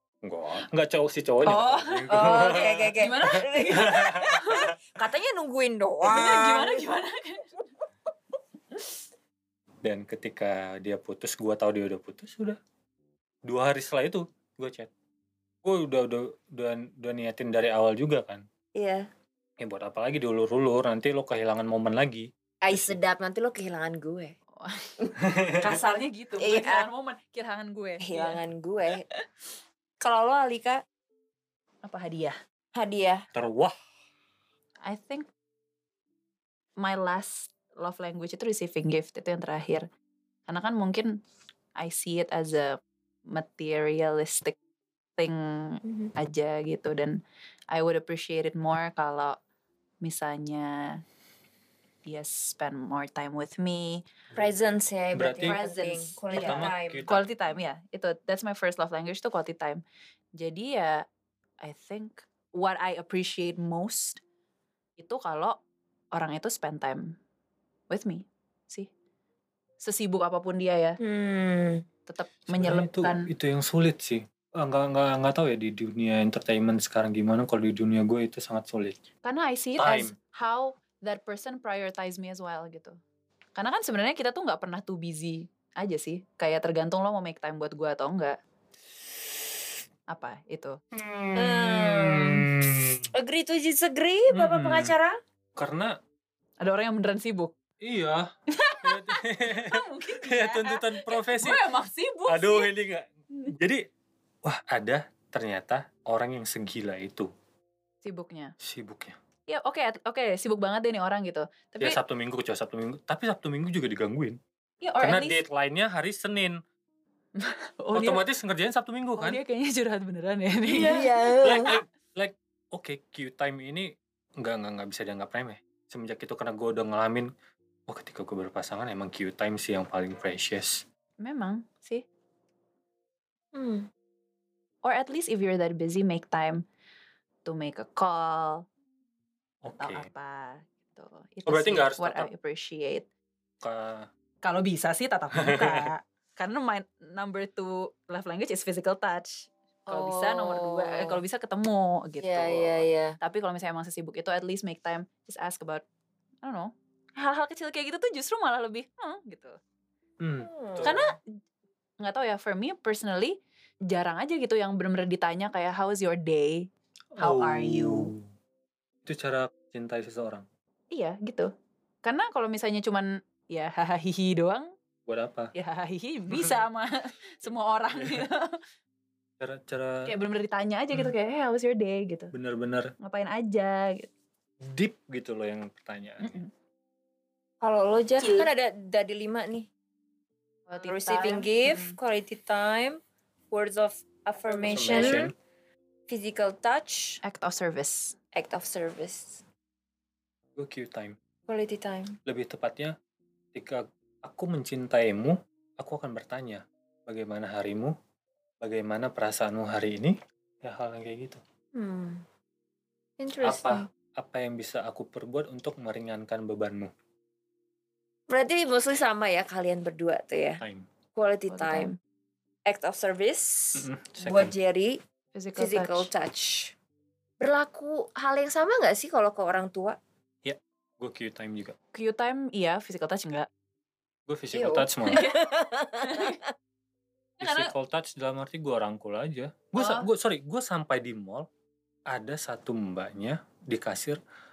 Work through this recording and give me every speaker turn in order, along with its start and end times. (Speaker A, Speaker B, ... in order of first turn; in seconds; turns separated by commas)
Speaker A: 0.2-4.8, Speaker B: 1.4-4.7, Speaker C: 2.1-6.8, Speaker B: 6.0-7.5, Speaker A: 9.8-12.6, Speaker A: 13.5-14.9, Speaker A: 15.6-18.4, Speaker C: 18.8-19.1, Speaker A: 19.6-23.0, Speaker C: 22.6-24.3, Speaker B: 24.6-25.0, Speaker A: 25.3-25.8, Speaker B: 25.6-28.4, Speaker C: 26.4-26.9, Speaker C: 28.0-29.1, Speaker C: 30.0-30.8, Speaker B: 31.9-32.4, Speaker C: 32.8-33.2, Speaker A: 33.4-33.7, Speaker B: 34.9-35.3, Speaker B: 36.8-39.9, Speaker B: 40.5-41.1, Speaker B: 41.8-42.8, Speaker B: 43.3-44.6, Speaker B: 45.2-47.2, Speaker B: 47.7-49.4, Speaker B: 50.0-51.0, Speaker B: 52.1-54.0, Speaker C: 54.4-57.0, Speaker A: 55.1-55.6, Speaker B: 55.4-59.8, Speaker A: 56.3-57.6, Speaker B: 60.4-61.0, Speaker B: 61.6-64.2, Speaker B: 65.0-65.6, Speaker B: 66.2-67.1, Speaker B: 67.9-68.9, Speaker B: 69.8-71.0, Speaker C: 71.0-71.8, Speaker B: 72.1-73.3, Speaker A: 72.5-79.0, Speaker B: 79.2-83.0, Speaker A: 79.8-80.1, Speaker B: 83.6-88.4, Speaker B: 90.1-90.8, Speaker A: 90.9-93.0, Speaker C: 91.4-92.5, Speaker C: 93.1-95.2, Speaker A: 94.3-94.9, Speaker A: 95.6-95.9, Speaker B: 96.6-97.5, Speaker A: 97.8-98.3, Speaker B: 98.5-102.7, Speaker A: 98.8-101.6, Speaker A: 102.3-103.8, Speaker A: 104.4-107.3, Speaker B: 108.0-108.5, Speaker A: 108.6-109.2, Speaker B: 109.5-112.0, Speaker A: 111.8-114.4, Speaker B: 114.8-115.4, Speaker A: 115.0-116.6, Speaker B: 117.4-118.2, Speaker A: 117.9-119.4, Speaker B: 119.2-121.0, Speaker C: 120.7-121.8, Speaker A: 121.4-127.3, Speaker A: 127.9-130.8, Speaker B: 131.2-132.0, Speaker C: 133.5-133.9, Speaker B: 134.8-136.6, Speaker B: 137.4-138.7, Speaker A: 139.6-140.1, Speaker B: 139.8-143.1, Speaker A: 141.5-142.3, Speaker A: 143.6-144.1, Speaker B: 144.4-155.8, Speaker A: 145.3-145.8, Speaker C: 149.9-151.2, Speaker C: 152.2-153.2, Speaker B: 156.4-159.6, Speaker A: 160.2-161.1, Speaker C: 160.4-161.0, Speaker B: 160.8-161.2, Speaker B: 162.0-163.4, Speaker B: 163.9-166.7, Speaker A: 167.2-168.3, Speaker B: 167.2-168.1, Speaker A: 169.1-170.5, Speaker B: 170.9-171.5, Speaker B: 172.0-174.7, Speaker A: 175.1-175.5, Speaker B: 175.6-178.6, Speaker A: 176.3-176.6, Speaker A: 177.5-178.3, Speaker A: 179.4-180.0, Speaker B: 180.1-182.3, Speaker A: 182.3-182.9, Speaker B: 183.0-184.1, Speaker A: 184.6-186.4, Speaker B: 186.2-186.5, Speaker C: 187.6-189.7, Speaker B: 188.2-188.5, Speaker B: 190.7-192.0, Speaker C: 190.8-193.0, Speaker C: 193.5-195.3, Speaker B: 194.5-195.2, Speaker A: 194.7-195.3, Speaker C: 196.1-197.2, Speaker B: 197.2-198.2, Speaker C: 198.3-199.4, Speaker A: 200.6-201.2, Speaker C: 201.5-202.2, Speaker A: 202.3-202.9, Speaker A: 203.5-207.9, Speaker A: 208.6-211.4, Speaker C: 211.8-212.2, Speaker C: 213.2-213.9, Speaker A: 213.4-216.9, Speaker C: 218.3-220.6, Speaker A: 220.6-220.9, Speaker C: 221.2-221.9, Speaker B: 221.5-222.0, Speaker C: 222.7-225.0, Speaker A: 223.8-224.6, Speaker B: 225.4-226.1, Speaker C: 225.6-226.7, Speaker C: 227.4-230.0, Speaker A: 230.4-231.8, Speaker B: 231.9-233.5, Speaker A: 234.3-235.3, Speaker C: 234.5-236.5, Speaker B: 235.1-235.4, Speaker B: 236.0-236.4, Speaker B: 237.4-237.7, Speaker A: 237.4-241.5, Speaker B: 239.8-240.1, Speaker A: 242.1-244.2